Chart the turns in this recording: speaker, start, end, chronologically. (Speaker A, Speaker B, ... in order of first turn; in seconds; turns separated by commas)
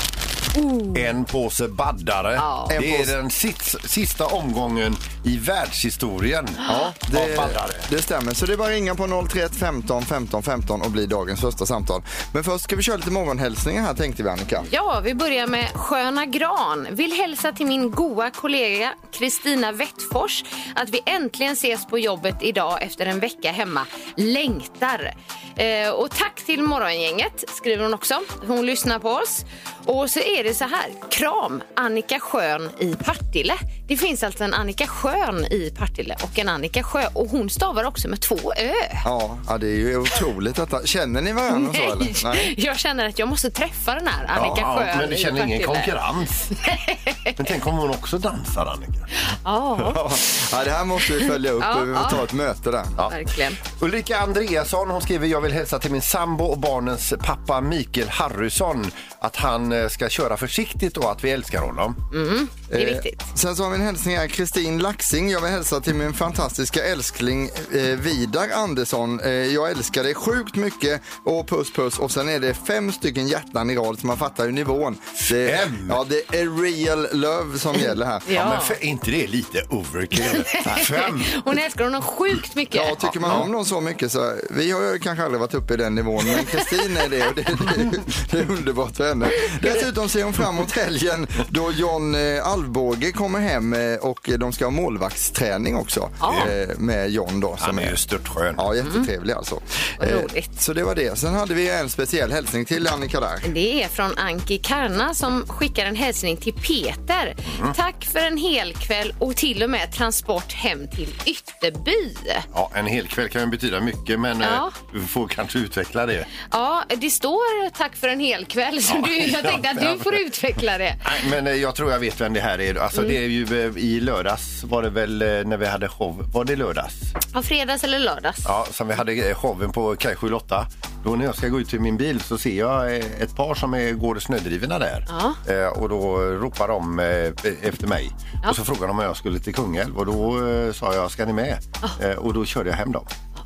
Speaker A: 0.6-1.0, Speaker B: 0.9-7.9, Speaker A: 2.4-2.8, Speaker C: 2.7-3.1, Speaker C: 6.7-14.7, Speaker A: 14.7-39.0, Speaker C: 39.0-42.5, Speaker A: 41.5-45.9, Speaker B: 44.3-46.5, Speaker A: 46.5-47.4, Speaker B: 47.4-49.1, Speaker A: 49.3-50.2, Speaker C: 49.8-53.0, Speaker A: 51.1-52.2, Speaker A: 53.1-53.6, Speaker B: 53.7-62.0, Speaker A: 62.1-63.3, Speaker C: 62.7-78.3, Speaker B: 75.3-76.0, Speaker A: 78.3-78.8, Speaker B: 78.3-81.5, Speaker A: 80.2-83.4, Speaker C: 82.7-98.0, Speaker B: 83.0-83.5, Speaker A: 89.4-89.8, Speaker A: 96.2-96.5, Speaker B: 96.3-96.5, Speaker B: 97.6-98.6, Speaker C: 98.5-103.5, Speaker A: 98.8-99.1, Speaker A: 100.0-100.5, Speaker A: 103.4-112.5, Speaker B: 107.5-107.8, Speaker B: 112.5-116.3, Speaker A: 114.4-114.8, Speaker A: 116.4-121.0, Speaker B: 118.9-120.2, Speaker B: 121.0-127.1, Speaker A: 127.3-128.5, Speaker B: 128.4-143.1, Speaker A: 135.1-135.4